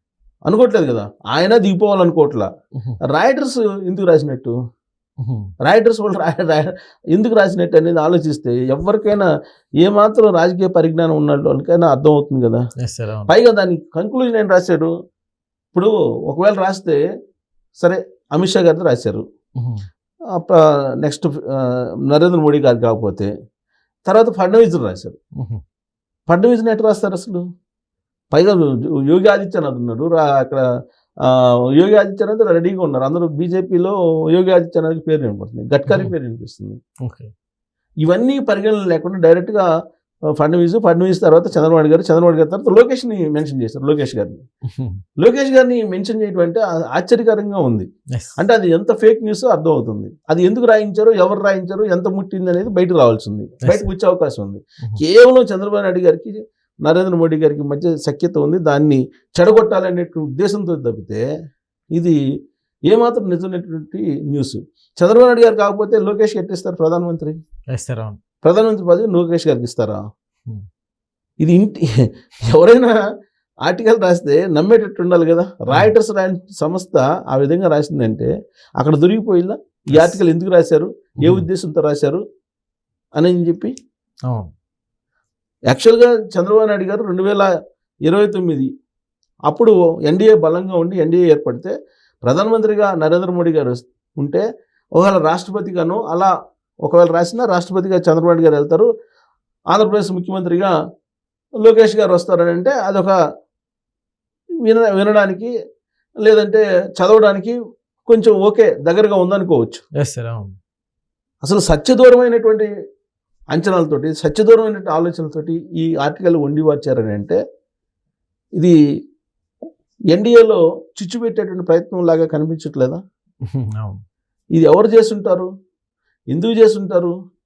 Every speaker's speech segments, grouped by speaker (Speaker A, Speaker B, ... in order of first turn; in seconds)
Speaker A: 0.5-2.5, 3.1-4.5, 5.6-9.3, 9.8-12.6, 13.3-14.9, 15.7-17.0, 17.8-19.2, 20.4-23.3, 24.1-25.2, 26.3-27.4, 28.3-30.6, 31.3-36.8, 38.0-39.6, 40.4-44.4, 45.2-47.9, 48.4-61.2, 62.9-67.4, 68.4-70.0, 71.4-71.9, 72.5-73.0, 73.7-82.2, 83.2-83.7, 85.7-87.5, 88.1-88.7, 89.5-91.7, 92.2-94.4, 95.0-96.3, 96.8-98.9, 99.7-100.7, 101.6-103.1, 104.7-105.5, 106.2-107.5, 108.1-109.8, 111.4-112.7, 113.5-117.4, 120.1-123.0, 124.5-125.5, 126.3-127.1
Speaker B: 5.2-5.5, 12.8-13.3, 19.6-19.8, 35.9-36.1, 37.0-37.3, 44.7-45.0, 53.6-53.9, 67.7-68.2, 79.9-80.2, 110.0-110.6, 123.5-124.0